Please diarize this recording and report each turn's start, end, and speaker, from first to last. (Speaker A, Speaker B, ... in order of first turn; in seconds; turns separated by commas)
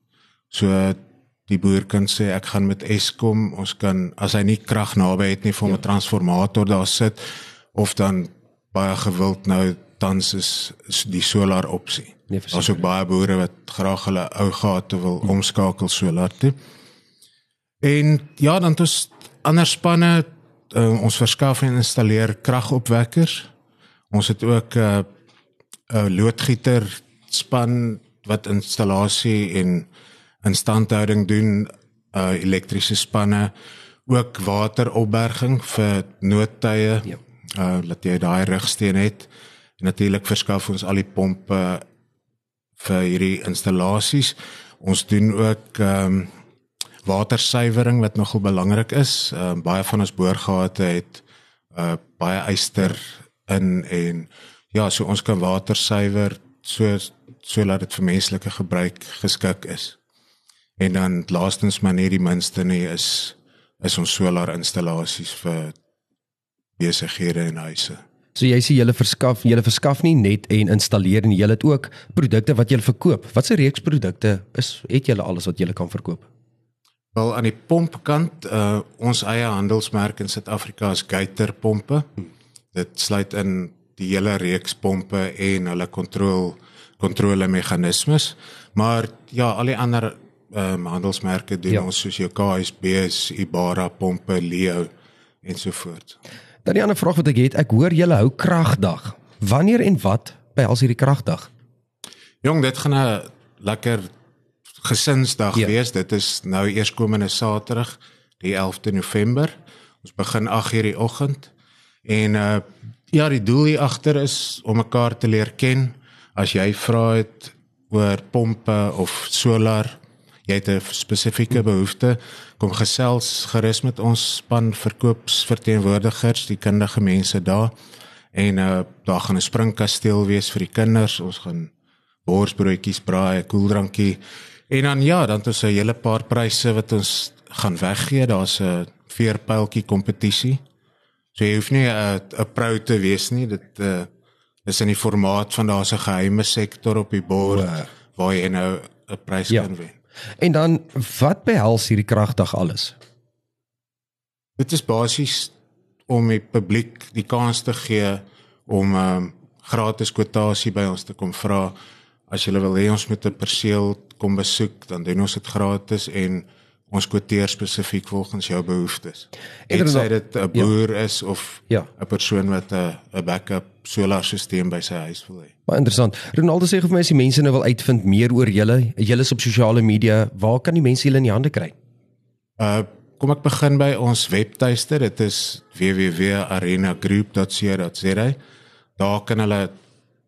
Speaker A: 0.5-7.2, Speaker A: 7.7-16.5, Speaker B: 12.3-12.8, Speaker A: 17.8-23.5, Speaker A: 24.1-25.1, Speaker A: 25.9-29.9, Speaker A: 30.4-33.5, Speaker A: 34.1-39.3, Speaker A: 39.8-41.8, Speaker A: 42.8-46.3, Speaker A: 47.0-60.0, Speaker A: 60.8-65.7, Speaker A: 66.8-68.0, Speaker B: 68.3-76.3, Speaker A: 77.1-82.1, Speaker A: 82.7-94.9, Speaker A: 95.4-96.2, Speaker B: 96.6-101.5, Speaker A: 102.4-104.1, Speaker A: 104.8-111.5, Speaker A: 112.0-127.7, Speaker A: 128.3-131.7, Speaker A: 132.2-140.6, Speaker A: 141.3-144.1, Speaker A: 144.7-149.9, Speaker B: 147.4-147.9, Speaker B: 150.4-152.9, Speaker A: 154.6-155.5, Speaker A: 156.1-161.7, Speaker A: 162.3-175.5, Speaker B: 169.7-170.7, Speaker B: 175.7-181.7, Speaker A: 182.6-188.4, Speaker A: 189.0-189.7